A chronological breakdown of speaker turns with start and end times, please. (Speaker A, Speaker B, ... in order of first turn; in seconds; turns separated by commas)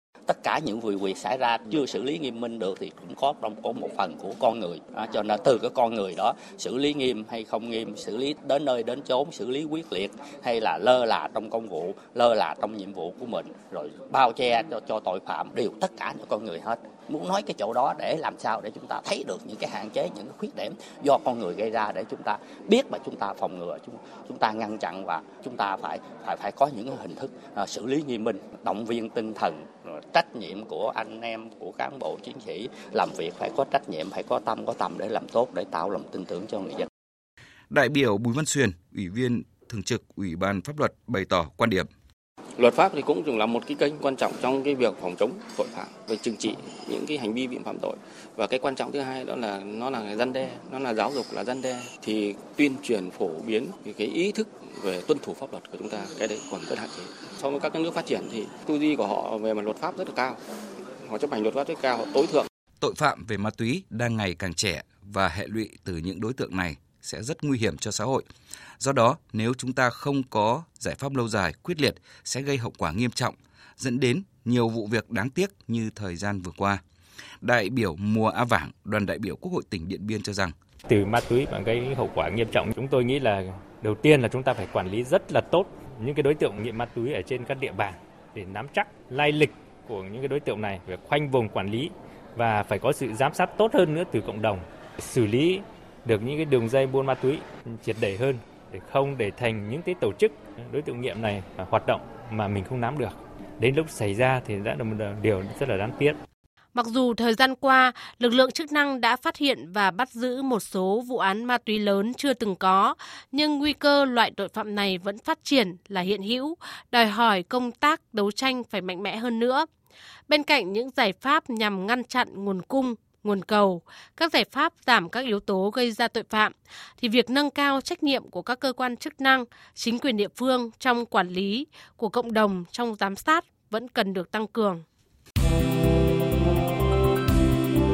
Speaker A: 0.3-36.9, Speaker B: 37.7-41.9, Speaker C: 42.6-60.4, Speaker C: 61.0-62.5, Speaker B: 62.8-68.2, Speaker B: 68.8-76.8, Speaker B: 77.4-80.5, Speaker D: 80.9-106.2, Speaker E: 106.7-119.7, Speaker E: 120.3-134.8